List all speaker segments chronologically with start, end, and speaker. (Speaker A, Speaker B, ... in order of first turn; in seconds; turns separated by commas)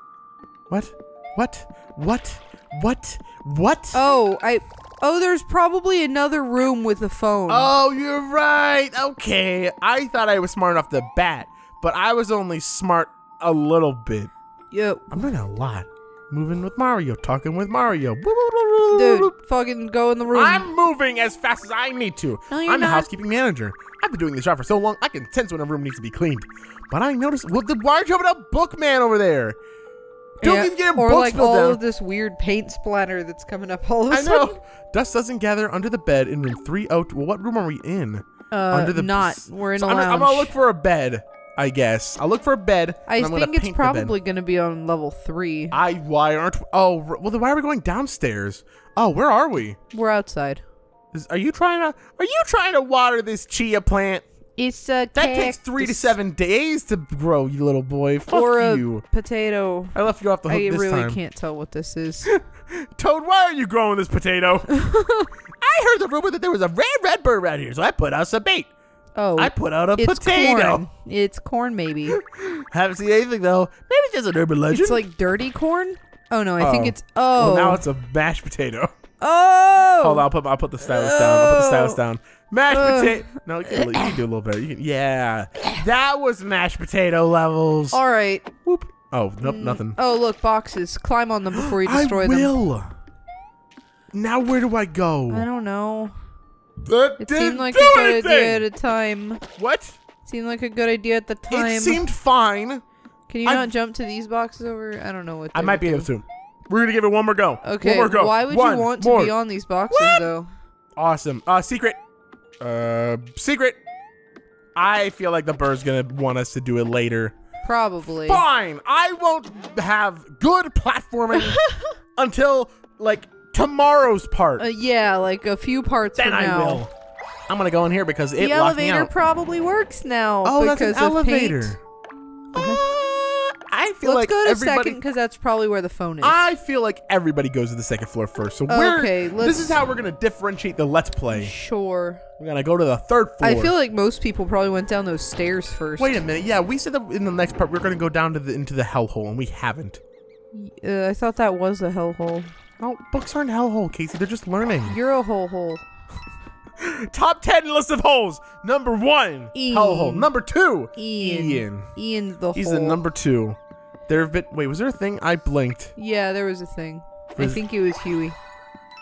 Speaker A: 0.7-4.0, Speaker B: 3.9-7.7, Speaker A: 7.5-14.3, Speaker B: 14.7-15.2, Speaker A: 15.1-19.3, Speaker B: 18.9-20.7, Speaker A: 20.3-29.6, Speaker B: 22.5-23.1, Speaker A: 30.4-31.8, Speaker B: 30.4-34.5, Speaker A: 34.1-44.1, Speaker B: 38.5-40.5, Speaker B: 43.1-45.8, Speaker A: 45.7-49.8, Speaker B: 49.9-50.6, Speaker A: 51.1-54.2, Speaker B: 54.6-56.2, Speaker A: 55.1-59.0, Speaker B: 58.3-62.3, Speaker A: 59.9-61.2, Speaker A: 62.3-64.7, Speaker B: 64.7-65.3, Speaker A: 65.6-68.7, Speaker B: 69.1-72.2, Speaker A: 69.4-70.8, Speaker A: 72.1-75.0, Speaker B: 74.7-77.8, Speaker A: 76.6-78.9, Speaker B: 79.2-80.3, Speaker A: 80.0-88.0, Speaker B: 80.8-82.0, Speaker B: 82.7-84.2, Speaker B: 87.9-88.6, Speaker A: 88.7-90.0, Speaker B: 89.4-92.5, Speaker A: 91.6-92.9, Speaker A: 94.1-95.5, Speaker B: 95.3-96.1, Speaker A: 96.8-98.6, Speaker B: 97.2-99.4, Speaker A: 99.6-100.0, Speaker B: 100.2-102.0, Speaker A: 101.5-102.8, Speaker B: 103.3-106.1, Speaker A: 103.4-103.7, Speaker A: 105.5-109.3, Speaker B: 107.6-110.5, Speaker A: 109.9-110.3, Speaker A: 111.0-112.0, Speaker A: 112.6-113.8, Speaker A: 114.7-117.3, Speaker B: 117.6-118.4, Speaker A: 118.1-121.6, Speaker B: 121.3-121.9, Speaker A: 122.2-124.7, Speaker B: 124.6-126.8, Speaker A: 126.2-126.9, Speaker A: 127.5-129.1, Speaker B: 128.4-131.8, Speaker A: 130.4-131.8, Speaker B: 132.5-132.8, Speaker A: 132.5-135.0, Speaker B: 134.0-136.4, Speaker A: 136.2-141.5, Speaker B: 138.7-139.8, Speaker B: 141.3-142.2, Speaker A: 142.4-143.7, Speaker B: 143.4-146.2, Speaker A: 146.0-150.0, Speaker B: 150.5-152.5, Speaker A: 152.8-155.0, Speaker B: 154.8-155.8, Speaker A: 156.8-161.9, Speaker B: 159.5-160.3, Speaker B: 160.9-163.0, Speaker A: 162.5-163.6, Speaker A: 164.1-165.9, Speaker B: 165.9-168.3, Speaker A: 167.3-167.6